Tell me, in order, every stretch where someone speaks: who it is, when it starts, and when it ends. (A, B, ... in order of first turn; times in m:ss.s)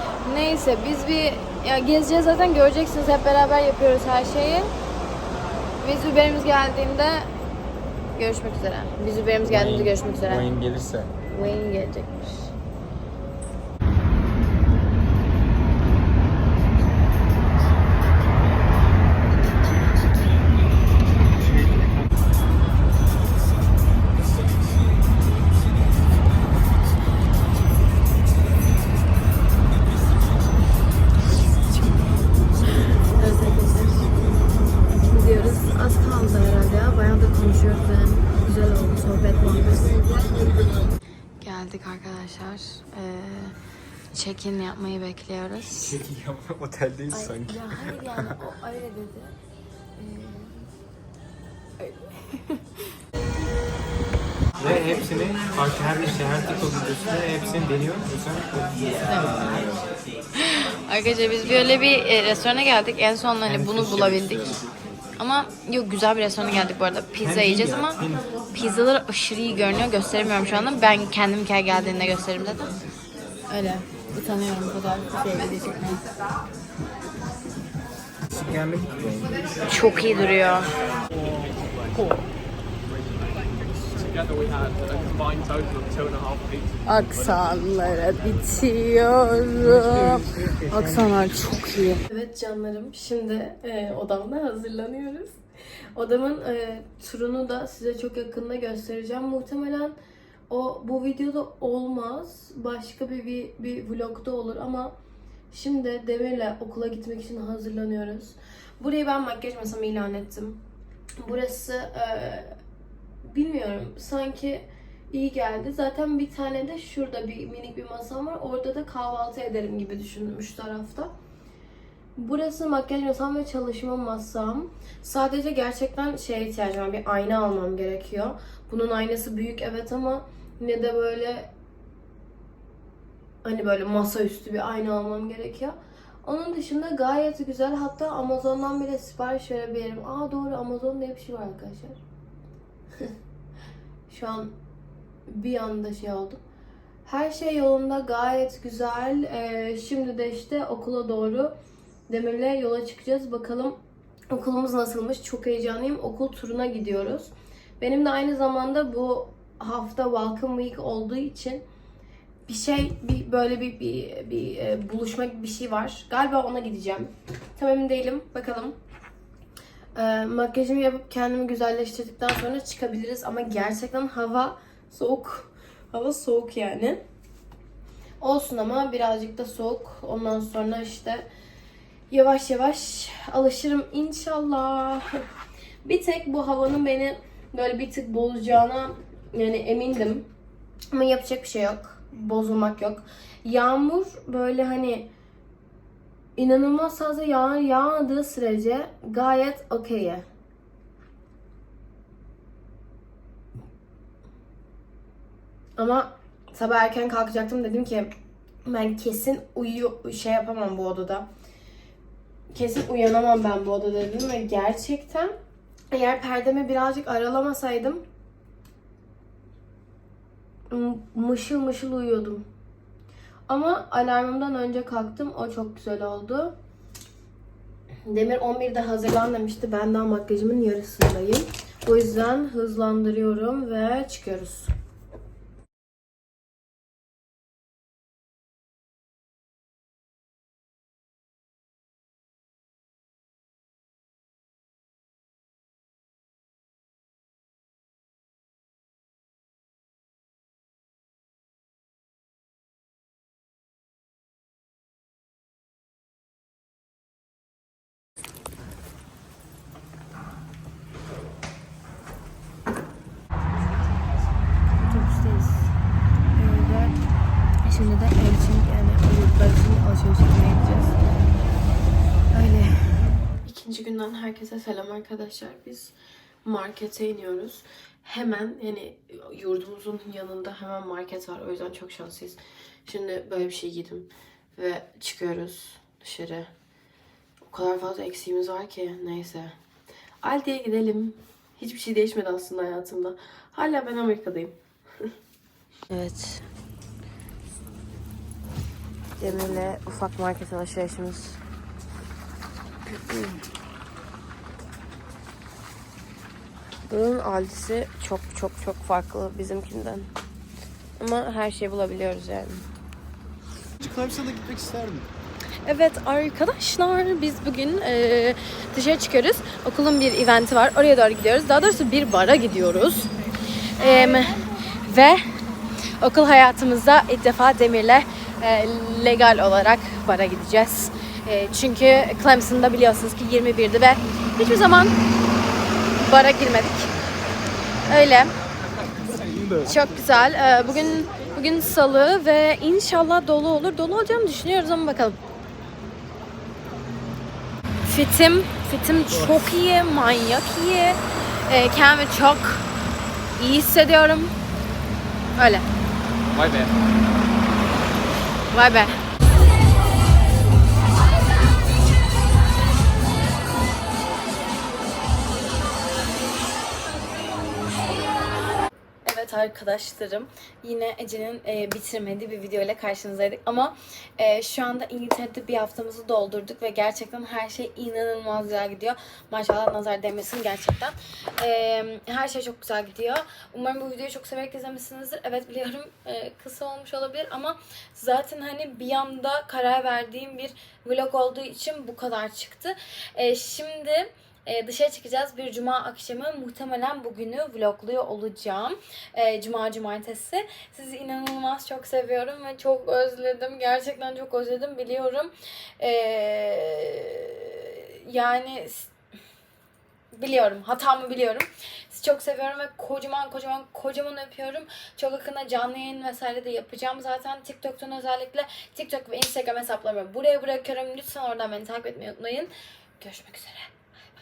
0:00.2-0:04.7 A
0:05.8-0:07.3 A
0:08.2-0:10.5 A
0:09.5-0:11.1 B
0:11.3-0:12.5 A
0:31.7-0:32.0 A
0:33.2-0:34.1 A
0:35.1-0:40.0 A
0:41.4-0:43.6 A
0:44.1-0:46.0 A
0:45.7-0:48.4 B
0:47.1-0:49.4 A
0:50.0-0:50.7 A
0:51.8-0:52.8 A
0:54.6-0:59.8 B
1:00.4-1:04.6 A
1:03.4-1:04.6 B
1:05.2-1:08.0 A
1:07.2-1:08.2 B
1:08.5-1:12.7 A
1:13.5-1:16.0 A
1:18.3-1:19.4 B
1:19.7-1:20.7 A
1:24.1-1:26.5 C
1:26.8-1:35.4 A
1:29.6-1:31.2 B
1:36.0-1:40.0 A
1:40.5-1:44.9 A
1:45.5-1:50.6 A
1:51.2-1:52.5 A
1:53.2-2:01.1 A
2:02.2-2:11.5 A
2:13.4-2:22.0 A
2:24.1-2:24.6 A
2:25.3-2:26.4 A
2:27.0-2:31.5 A
2:32.1-2:33.8 A
2:34.3-2:41.6 A
2:42.5-2:48.8 A
2:50.0-2:57.0 A
2:58.2-3:01.3 A
3:02.1-3:05.2 A
3:05.8-3:10.3 A
3:10.9-3:15.1 A
3:16.4-3:20.3 A
3:25.8-3:28.1 A
3:28.6-3:31.3 A
3:32.5-3:35.4 A
3:35.9-3:38.0 A
3:40.7-3:42.5 A
3:43.5-3:46.6 A
3:48.1-3:54.7 A
4:24.8-4:25.7 A
4:26.4-4:27.0 A
4:27.6-4:31.0 A
4:32.3-4:32.9 A
4:33.4-4:46.5 A
4:47.4-4:49.6 A
4:50.2-4:54.6 A
4:55.9-4:56.5 A
4:59.2-5:01.4 A
5:03.1-5:03.4 A
5:06.9-5:10.1 A
5:11.0-5:12.6 A
5:13.8-5:15.0 C
5:15.7-5:23.1 A
5:23.8-5:25.2 A
5:26.0-5:35.0 A
5:36.0-5:36.9 A
5:37.9-5:38.3 A
5:39.1-5:39.8 C
5:39.6-5:45.2 A
5:47.8-5:52.7 A
5:49.1-5:49.5 B
5:53.4-5:54.3 A
5:55.4-5:55.6 A
5:56.3-5:56.7 B
5:58.5-5:59.0 A
6:09.0-6:48.9 A
6:50.2-7:03.7 A